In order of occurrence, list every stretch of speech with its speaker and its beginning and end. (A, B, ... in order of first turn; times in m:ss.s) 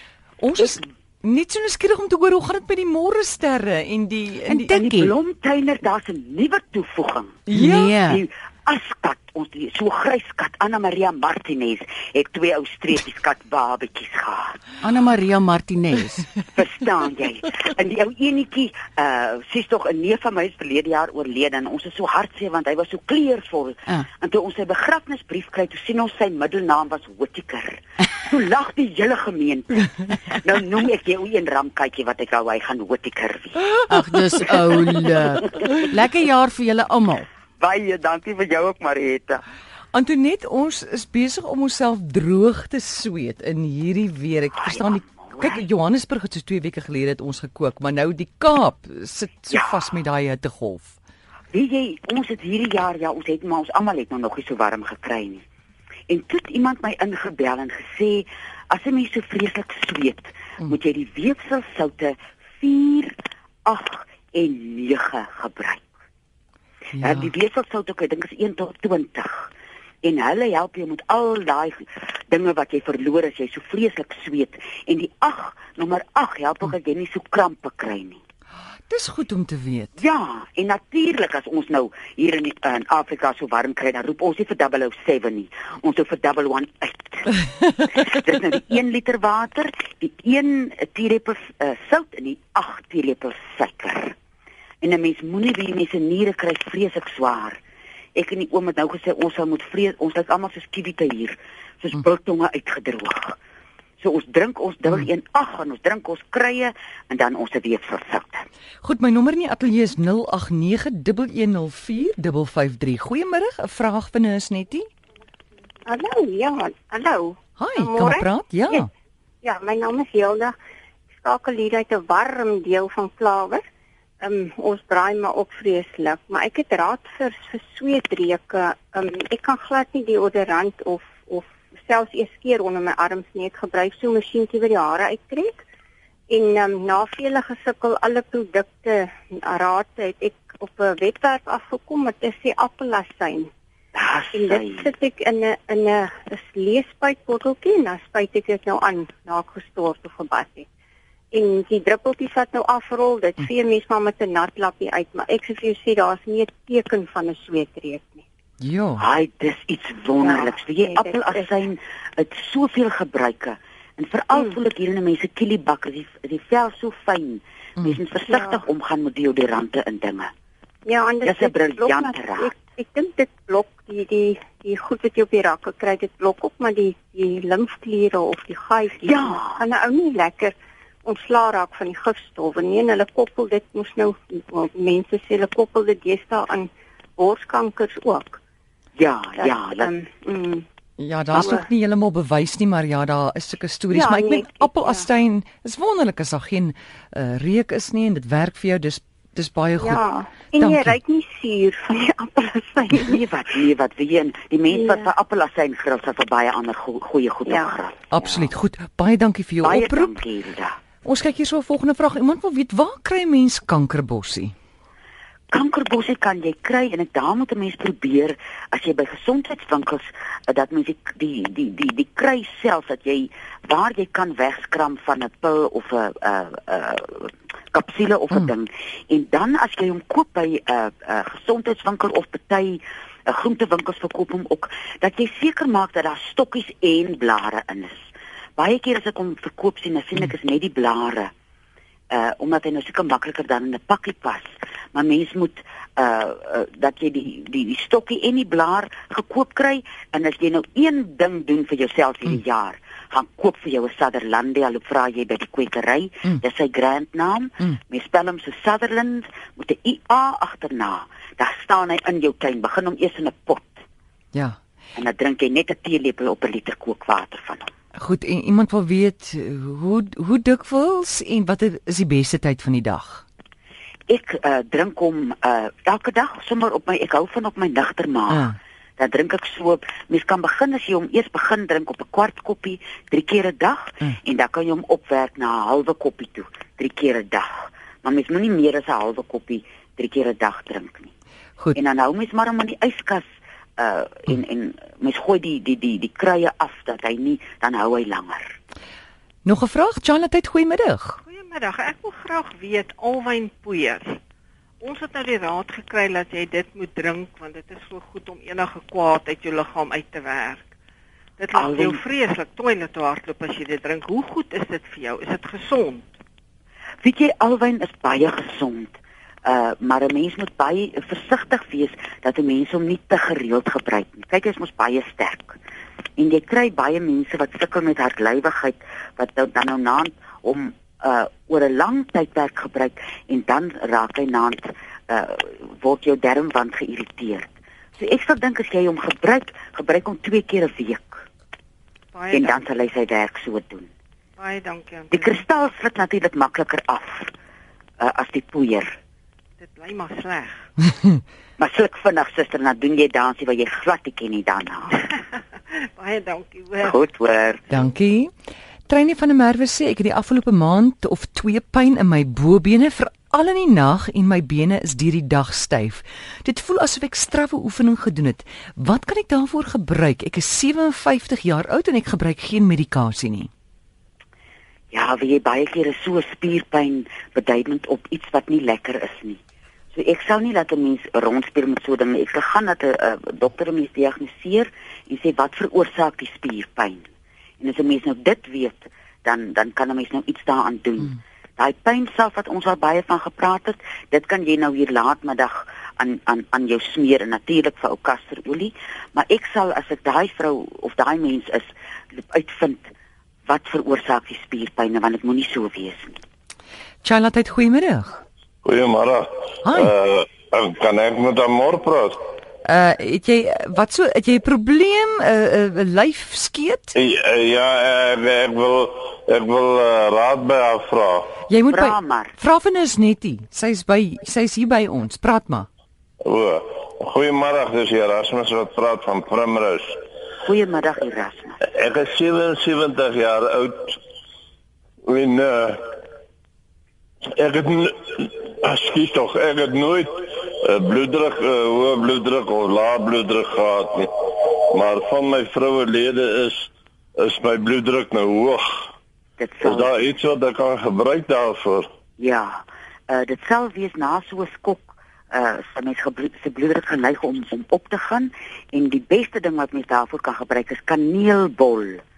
0:00.4-0:04.7 A
0:04.5-0:05.1 B
0:04.7-0:14.6 C
0:07.5-0:08.0 A
0:07.5-0:08.2 B
0:14.8-0:16.3 B
0:16.5-0:33.7 C
0:33.9-0:37.3 B
0:34.6-0:35.7 C
0:37.6-0:39.4 C
0:39.9-0:50.9 A
0:44.5-0:45.6 C
0:51.5-0:55.4 C
0:56.1-1:03.1 C
1:03.6-1:05.8 C
1:06.9-1:07.3 A
1:07.0-1:09.5 C
1:10.0-1:18.2 C
1:18.9-1:19.9 A
1:20.0-1:27.4 C
1:27.9-1:34.1 C
1:34.8-1:37.6 C
1:38.2-1:43.4 C
1:44.0-1:48.4 C
1:48.8-1:54.9 A
1:55.9-1:58.9 D
1:57.6-1:58.9 A
1:59.4-2:00.5 D
2:01.2-2:03.6 D
2:04.2-2:15.6 D
2:16.3-2:23.5 D
2:23.9-2:24.9 C
2:24.3-2:30.7 D
2:31.3-2:38.2 D
2:38.6-2:39.0 A
2:39.0-2:50.3 C
2:40.2-2:41.5 D
2:48.3-2:48.6 D
2:50.8-3:08.4 D
2:51.2-2:52.5 C
2:59.0-2:59.6 C
3:09.0-3:09.9 C
3:09.4-3:10.6 D
3:11.0-3:20.0 A
3:11.3-3:11.6 D
3:13.9-3:15.1 D
3:19.8-3:22.9 D
3:20.5-3:21.0 A
3:22.0-3:28.0 C
3:24.7-3:25.1 D
3:27.4-3:28.5 D
3:28.1-3:30.1 A
3:29.6-3:30.8 C
3:31.0-3:34.5 A
3:35.5-3:57.9 C
3:58.6-4:01.3 C
4:02.1-4:23.8 C
4:25.0-4:27.7 C
4:28.0-4:33.2 A
4:34.1-4:38.4 C
4:38.3-4:38.6 A
4:39.0-4:51.1 C
4:51.7-4:53.2 C
4:53.8-4:58.6 C
4:59.4-5:01.2 A
5:01.3-5:04.2 E
5:04.8-5:10.6 E
5:11.4-5:16.1 E
5:11.5-5:12.0 C
5:17.0-5:18.9 C
5:19.4-5:25.6 C
5:26.2-5:37.4 C
5:38.0-5:41.2 C
5:42.1-5:42.6 E
5:42.3-5:43.9 C
5:44.4-5:45.4 E
5:45.1-5:47.3 C
5:48.0-5:48.9 C
5:49.6-5:50.7 E
5:51.6-5:54.9 C
5:55.1-5:57.0 E
5:56.8-5:57.6 C
5:57.7-5:58.3 A
5:58.9-6:13.5 A
6:14.9-6:19.4 C
6:19.9-6:27.0 C
6:27.6-6:42.9 C
6:43.5-6:46.2 C
6:47.0-6:48.2 A
6:48.6-6:52.2 F
6:49.6-6:49.9 A
6:52.6-6:56.9 A
6:56.9-7:01.3 F
7:01.5-7:05.7 A
7:01.7-7:02.3 C
7:06.2-7:10.0 F
7:10.4-7:11.6 C
7:11.7-7:14.0 F
7:15.0-7:15.8 F
7:17.4-7:20.1 F
7:20.6-7:28.9 F
7:29.4-7:30.0 C
7:29.6-7:31.9 F
7:32.2-7:42.0 C